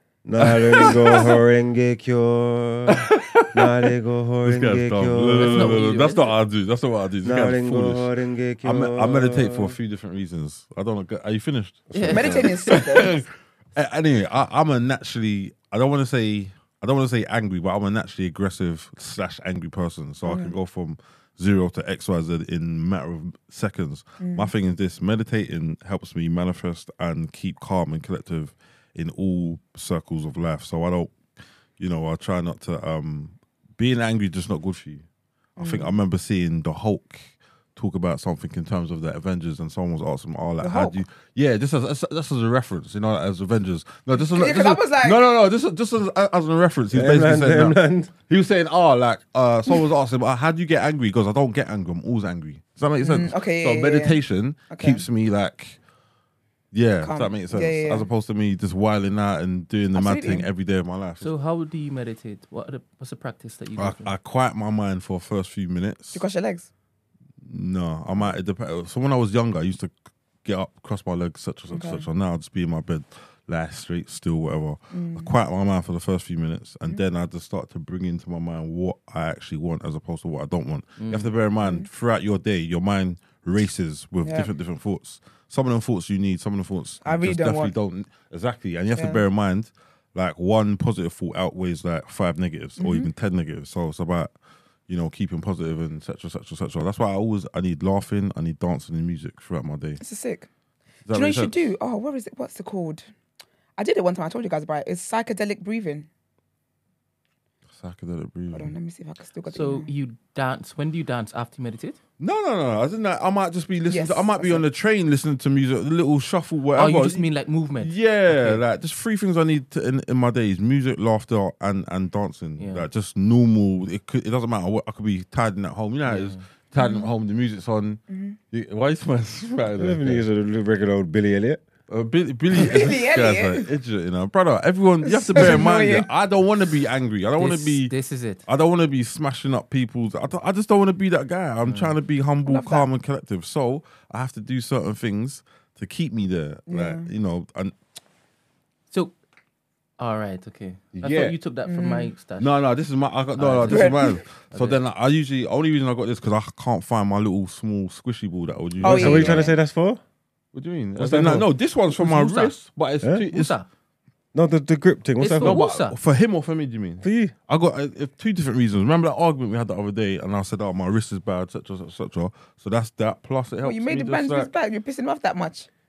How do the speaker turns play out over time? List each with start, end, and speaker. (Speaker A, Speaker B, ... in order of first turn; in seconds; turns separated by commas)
Speaker A: 0.2-5.8, Speaker B: 0.4-1.3, Speaker B: 2.9-3.9, Speaker B: 4.4-8.1, Speaker C: 5.3-6.3, Speaker A: 7.2-9.8, Speaker B: 8.6-35.0, Speaker C: 11.9-12.6, Speaker D: 12.1-13.1, Speaker D: 20.2-20.6, Speaker D: 24.2-24.5, Speaker D: 35.6-36.0, Speaker B: 35.6-55.8, Speaker D: 40.6-41.0, Speaker D: 44.1-45.2, Speaker A: 46.9-48.1, Speaker D: 53.0-55.0, Speaker B: 56.7-61.3, Speaker D: 57.0-58.1, Speaker D: 59.9-60.5, Speaker C: 61.2-64.1, Speaker B: 63.8-66.2, Speaker D: 66.1-66.7, Speaker B: 67.4-69.9, Speaker B: 70.4-100.0, Speaker D: 71.7-72.1, Speaker D: 74.9-75.3, Speaker C: 81.0-81.3, Speaker D: 81.6-81.9, Speaker D: 84.2-84.5, Speaker D: 87.0-87.8, Speaker D: 89.0-89.2, Speaker D: 92.8-93.1, Speaker D: 100.0-100.5, Speaker B: 101.1-101.7, Speaker D: 101.1-103.1, Speaker D: 103.8-106.1, Speaker B: 107.7-108.8, Speaker D: 108.5-109.9, Speaker C: 109.5-112.0, Speaker B: 112.2-117.3, Speaker D: 113.9-114.7, Speaker C: 116.8-118.6, Speaker B: 117.8-130.2, Speaker C: 122.6-122.9, Speaker C: 126.1-126.5, Speaker D: 126.8-127.1, Speaker D: 128.1-128.4, Speaker A: 129.8-131.7, Speaker B: 131.9-137.9, Speaker D: 132.5-133.7, Speaker D: 135.0-136.1, Speaker C: 137.4-138.5, Speaker B: 138.5-147.8, Speaker C: 141.7-141.9, Speaker D: 142.4-142.9, Speaker D: 146.7-147.1, Speaker C: 148.9-149.2, Speaker C: 150.0-152.5, Speaker A: 151.0-151.3, Speaker D: 151.7-152.1, Speaker B: 152.4-159.5, Speaker C: 153.3-154.8, Speaker D: 153.7-154.2, Speaker D: 158.8-159.6, Speaker A: 158.8-160.0, Speaker B: 160.5-163.5, Speaker A: 161.0-161.5, Speaker C: 161.9-162.6, Speaker C: 163.3-163.7, Speaker A: 164.3-165.8, Speaker C: 165.2-166.0, Speaker B: 165.4-174.5, Speaker A: 167.0-167.3, Speaker D: 173.6-175.7